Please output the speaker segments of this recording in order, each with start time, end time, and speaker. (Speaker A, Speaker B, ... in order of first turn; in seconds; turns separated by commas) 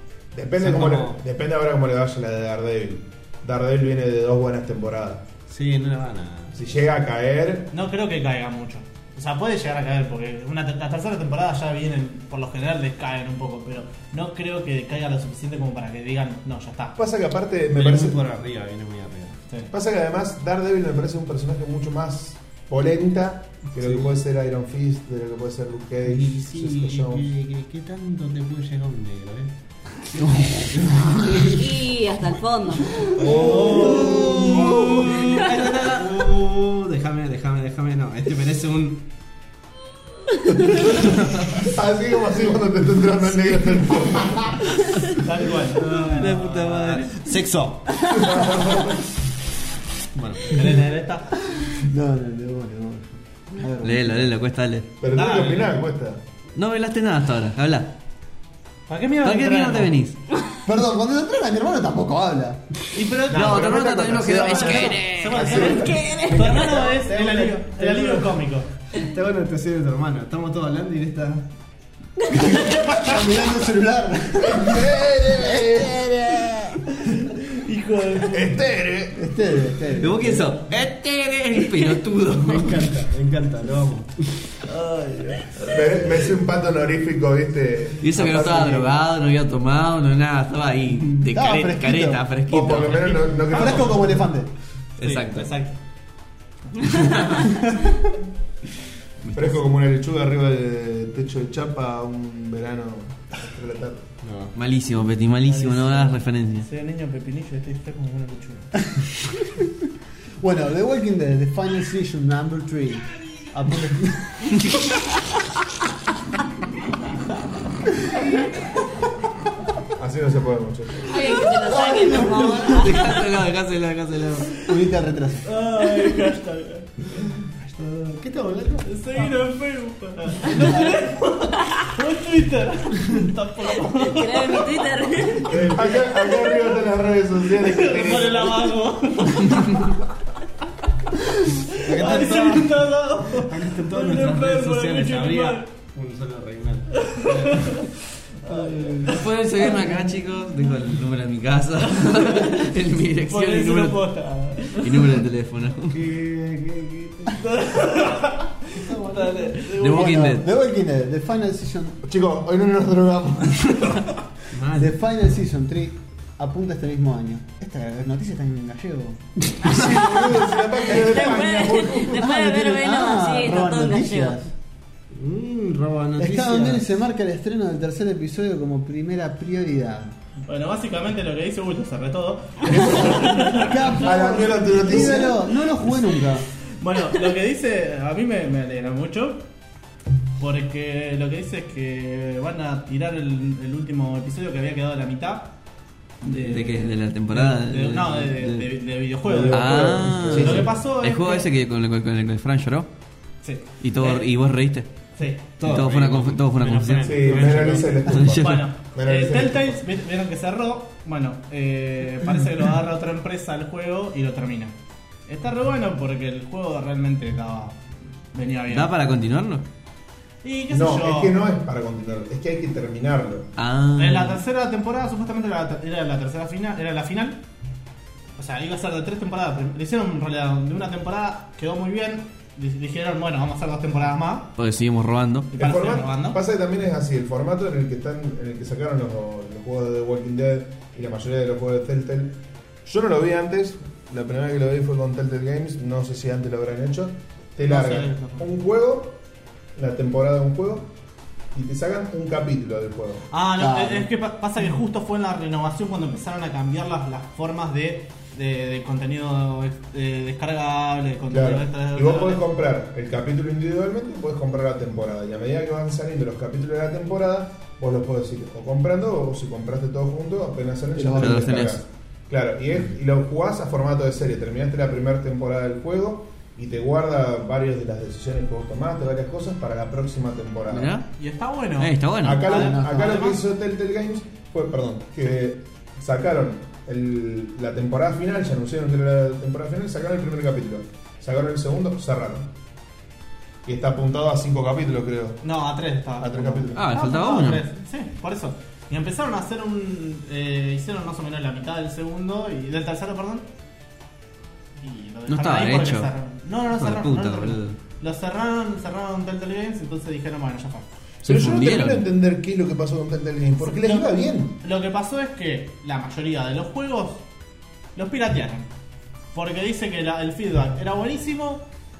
Speaker A: 0.3-5.2, Speaker B: 0.6-1.2, Speaker B: 5.5-6.7, Speaker A: 6.5-7.7, Speaker C: 7.7-17.0, Speaker A: 17.0-18.2, Speaker B: 17.7-19.4, Speaker A: 19.7-27.3, Speaker B: 23.8-24.1, Speaker B: 26.0-31.7, Speaker D: 31.4-33.0, Speaker B: 33.1-39.0, Speaker A: 33.1-35.2, Speaker C: 33.2-34.6, Speaker E: 34.0-36.1, Speaker A: 40.8-44.8, Speaker C: 45.1-46.2, Speaker B: 45.8-48.0, Speaker E: 45.9-47.2, Speaker A: 48.1-49.0, Speaker B: 50.1-50.8, Speaker C: 50.5-51.3, Speaker F: 51.6-54.3, Speaker E: 53.8-54.9, Speaker A: 55.0-56.2, Speaker C: 55.1-55.7, Speaker E: 56.5-57.9, Speaker C: 58.9-60.0, Speaker E: 59.2-60.2, Speaker F: 60.6-62.7, Speaker C: 62.9-68.7, Speaker E: 63.0-65.6, Speaker A: 63.3-66.0, Speaker D: 65.5-66.9, Speaker B: 66.2-68.4, Speaker B: 68.9-71.5, Speaker F: 72.6-75.8, Speaker A: 74.4-76.1, Speaker C: 77.5-78.6, Speaker A: 78.2-79.3, Speaker F: 79.1-80.6, Speaker E: 80.0-82.9, Speaker B: 82.3-84.6, Speaker C: 84.7-85.8, Speaker A: 85.7-89.0, Speaker E: 88.0-93.3, Speaker F: 91.3-92.2, Speaker A: 92.5-94.2, Speaker C: 93.4-94.0, Speaker F: 93.4-94.5, Speaker E: 95.0-95.5, Speaker C: 95.0-95.8, Speaker C: 96.7-97.5, Speaker E: 99.2-99.6, Speaker A: 99.3-104.1, Speaker B: 104.2-104.5, Speaker E: 104.5-106.7, Speaker C: 105.4-108.7, Speaker F: 110.4-114.5, Speaker A: 119.9-121.4, Speaker D: 121.0-123.3, Speaker B: 122.1-122.8, Speaker E: 122.6-124.5, Speaker F: 124.6-125.5, Speaker C: 125.4-127.0, Speaker B: 127.4-128.9, Speaker C: 128.8-134.9, Speaker D: 134.0-135.8, Speaker C: 135.5-136.7, Speaker A: 135.5-138.8, Speaker C: 137.5-140.0, Speaker C: 141.5-145.7, Speaker B: 141.8-147.8, Speaker C: 147.0-147.9, Speaker C: 148.4-149.2, Speaker B: 148.4-149.2, Speaker E: 149.0-154.0, Speaker C: 153.2-155.2, Speaker E: 154.7-156.0, Speaker B: 155.9-157.3, Speaker C: 157.3-160.2, Speaker B: 158.8-159.4, Speaker E: 159.7-160.5, Speaker F: 159.8-162.0, Speaker A: 162.0-164.1, Speaker B: 164.5-165.0, Speaker F: 164.7-170.4, Speaker A: 169.6-172.3, Speaker D: 170.8-174.4, Speaker F: 172.2-174.5, Speaker B: 175.1-176.9, Speaker F: 176.2-180.1, Speaker C: 180.5-184.1, Speaker F: 182.9-186.4, Speaker A: 184.0-185.5, Speaker C: 186.8-189.4, Speaker C: 190.4-195.5, Speaker C: 196.2-201.5, Speaker E: 196.2-198.7, Speaker A: 199.2-200.7, Speaker E: 199.5-202.9, Speaker C: 203.4-204.3, Speaker E: 203.8-204.9, Speaker C: 205.2-205.4, Speaker B: 205.6-208.1, Speaker E: 205.6-208.7, Speaker A: 207.0-209.8, Speaker C: 208.3-214.7, Speaker C: 215.3-218.9, Speaker E: 218.7-219.6, Speaker C: 220.4-221.3, Speaker A: 220.7-223.5, Speaker E: 223.6-224.4, Speaker C: 224.0-227.4, Speaker C: 228.4-234.5, Speaker E: 234.6-235.5, Speaker C: 235.5-236.4, Speaker A: 235.6-249.2, Speaker C: 247.6-248.5, Speaker A: 249.7-250.9, Speaker A: 251.5-253.3, Speaker C: 253.3-262.4, Speaker F: 253.6-254.1, Speaker A: 261.3-281.0, Speaker F: 270.9-271.5, Speaker E: 271.2-271.8, Speaker E: 280.7-281.1, Speaker C: 281.2-283.4, Speaker E: 281.8-282.5, Speaker A: 282.2-292.5, Speaker F: 282.5-283.2, Speaker A: 293.6-295.4, Speaker C: 295.4-303.4, Speaker A: 296.2-296.8, Speaker E: 296.7-297.6, Speaker C: 304.8-310.9, Speaker E: 305.3-306.1, Speaker E: 306.7-307.8, Speaker E: 311.2-312.1, Speaker A: 311.2-314.6, Speaker C: 313.6-317.2, Speaker C: 317.9-318.7, Speaker C: 319.3-321.6